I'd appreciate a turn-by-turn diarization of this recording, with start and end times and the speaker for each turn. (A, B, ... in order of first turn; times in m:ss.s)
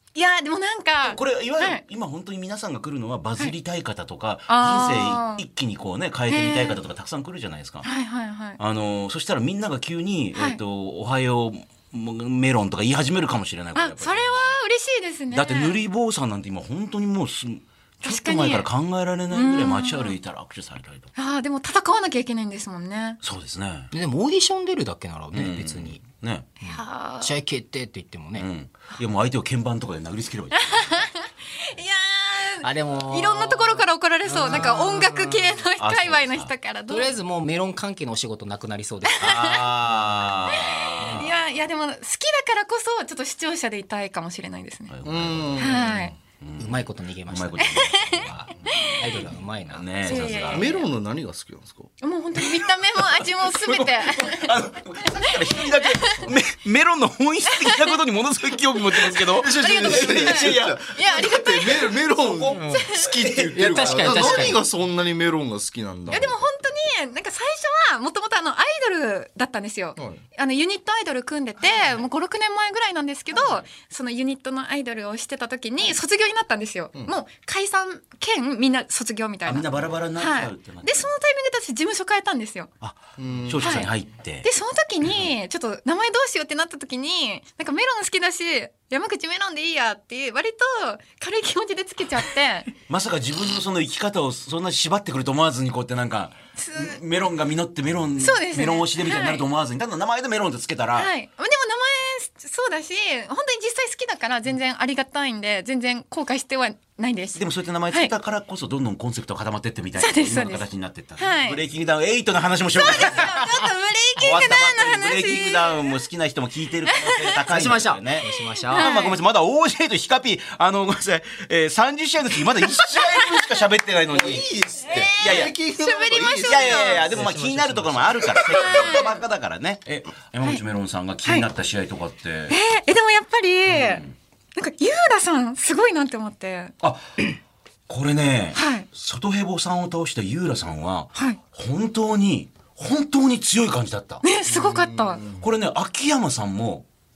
0:00.1-0:01.8 A
0:01.0-0:07.9 B
0:04.5-0:05.4 A
0:06.3-0:06.8 A
0:07.8-0:08.6 A
0:08.6-0:14.5 B
0:13.8-0:15.8 A
0:15.3-0:21.1 B
0:18.0-0:18.7 A
0:19.3-0:20.2 A
0:21.2-0:23.2 A
0:23.2-0:23.9 B
0:23.9-0:26.0 C
0:25.3-0:26.5 B
0:26.6-0:28.5 C
0:26.6-0:27.4 A
0:28.4-0:31.1 B
0:30.5-0:37.1 A
0:32.6-0:35.6 C
0:34.5-0:34.8 B
0:35.8-0:36.5 B
0:36.9-0:39.5 C
0:39.1-0:39.7 A
0:39.2-0:41.4 B
0:40.5-0:44.9 A
0:41.0-0:41.2 C
0:44.9-0:45.8 B
0:45.0-0:46.1 D
0:45.6-0:46.1 A
0:46.4-0:50.8 B
0:46.6-0:47.7 C
0:47.6-0:49.2 A
0:49.0-0:50.4 C
0:50.0-0:50.9 A
0:50.5-0:51.9 D
0:52.0-0:54.6 A
0:52.4-1:01.3 B
0:55.1-0:56.3 A
0:57.5-0:58.0 A
0:59.0-1:03.2 A
0:59.4-1:06.4 D
1:02.1-1:04.6 B
1:02.5-1:02.9 C
1:03.5-1:04.6 C
1:06.1-1:22.7 A
1:19.4-1:21.1 B
1:22.8-1:24.5 B
1:23.2-1:23.9 D
1:23.6-1:23.9 A
1:24.4-1:32.7 A
1:32.9-1:41.1 B
1:36.6-1:37.0 A
1:38.2-1:39.4 A
1:41.0-1:48.1 A
1:47.4-1:53.6 B
1:50.0-1:51.6 A
1:52.8-1:55.9 A
1:54.2-2:04.5 B
1:56.9-1:57.4 A
1:57.5-1:58.9 C
1:58.7-1:59.2 A
2:02.9-2:03.3 A
2:04.1-2:07.1 D
2:04.9-2:07.1 A
2:05.1-2:05.6 B
2:06.4-2:12.6 B
2:07.1-2:08.4 C
2:08.4-2:09.2 A
2:12.5-2:16.7 A
2:13.7-2:14.1 B
2:16.8-2:17.4 B
2:17.9-2:24.2 B
2:18.6-2:18.9 A
2:24.2-2:25.2 A
2:24.5-2:25.5 D
2:25.4-2:26.9 B